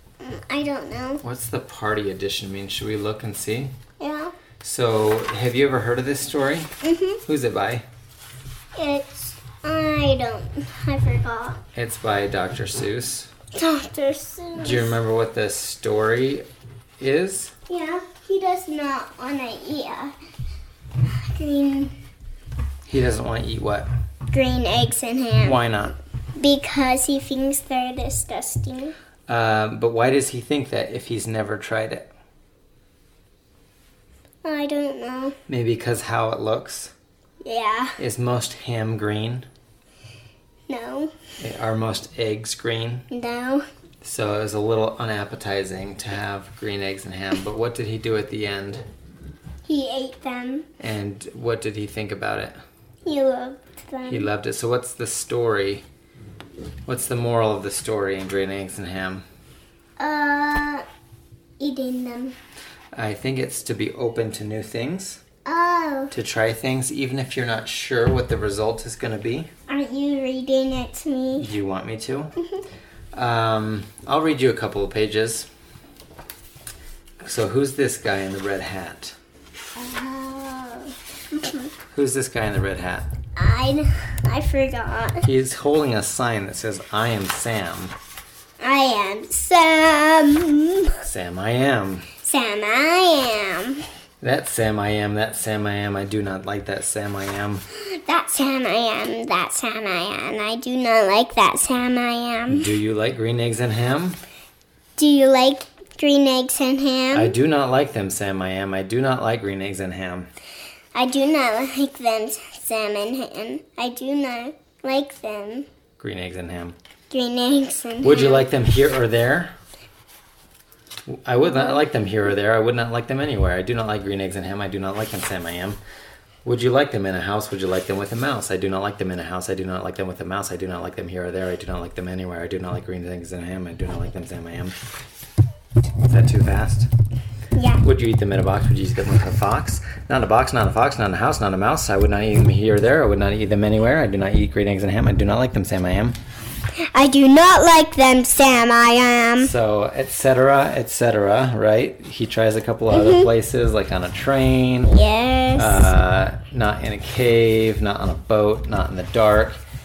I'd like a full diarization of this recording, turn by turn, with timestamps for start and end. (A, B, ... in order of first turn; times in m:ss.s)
0:00.2-0:01.2 A
0:01.2-0:03.8 B
0:04.0-0:04.3 A
0:04.6-0:06.7 B
0:06.8-0:07.2 A
0:07.2-0:07.8 B
0:08.8-0:11.6 A
0:11.7-0:13.3 B
0:13.5-0:14.9 A
0:14.6-0:16.4 B
0:17.0-0:17.5 B
0:17.7-0:20.1 A
0:21.0-0:21.9 A
0:22.8-0:23.9 B
0:24.3-0:25.6 A
0:25.4-0:25.9 B
0:26.4-0:28.9 A
0:29.3-0:32.0 B
0:34.4-0:35.3 A
0:35.5-0:36.9 B
0:37.4-0:38.0 A
0:38.0-0:39.4 B
0:40.7-0:41.1 A
0:41.4-0:43.0 B
0:43.1-0:43.6 A
0:44.0-0:48.8 B
0:49.6-0:50.7 A
0:50.8-0:52.6 B
0:53.0-0:54.3 A
0:54.1-0:55.8 B
0:56.8-0:59.2 B
1:00.0-1:00.8 A
1:01.6-1:02.4 A
1:02.9-1:05.2 B
1:05.4-1:06.1 A
1:06.1-1:09.5 B
1:09.7-1:11.5 A
1:11.4-1:12.3 B
1:13.1-1:15.5 B
1:17.2-1:19.2 B
1:19.8-1:21.7 A
1:21.9-1:23.1 B
1:23.4-1:25.3 A
1:25.2-1:27.9 B
1:28.6-1:31.0 A
1:31.0-1:32.0 B
1:32.2-1:33.8 A
1:34.2-1:37.6 B
1:37.7-1:42.7 A
1:42.5-1:44.2 B
1:45.0-1:47.4 A
1:47.1-1:50.3 B
1:50.9-1:55.7 A
1:56.0-1:56.8 B
1:57.1-1:58.5 A
1:58.0-1:59.5 B
2:01.1-2:05.8 B
2:06.4-2:14.7 B
2:16.0-2:16.9 B
2:17.6-2:17.8 A
2:17.8-2:26.2 B
2:26.9-2:29.5 A
2:29.4-2:34.9 B
2:32.9-2:33.3 A
2:34.8-2:35.9 A
2:35.6-2:39.6 B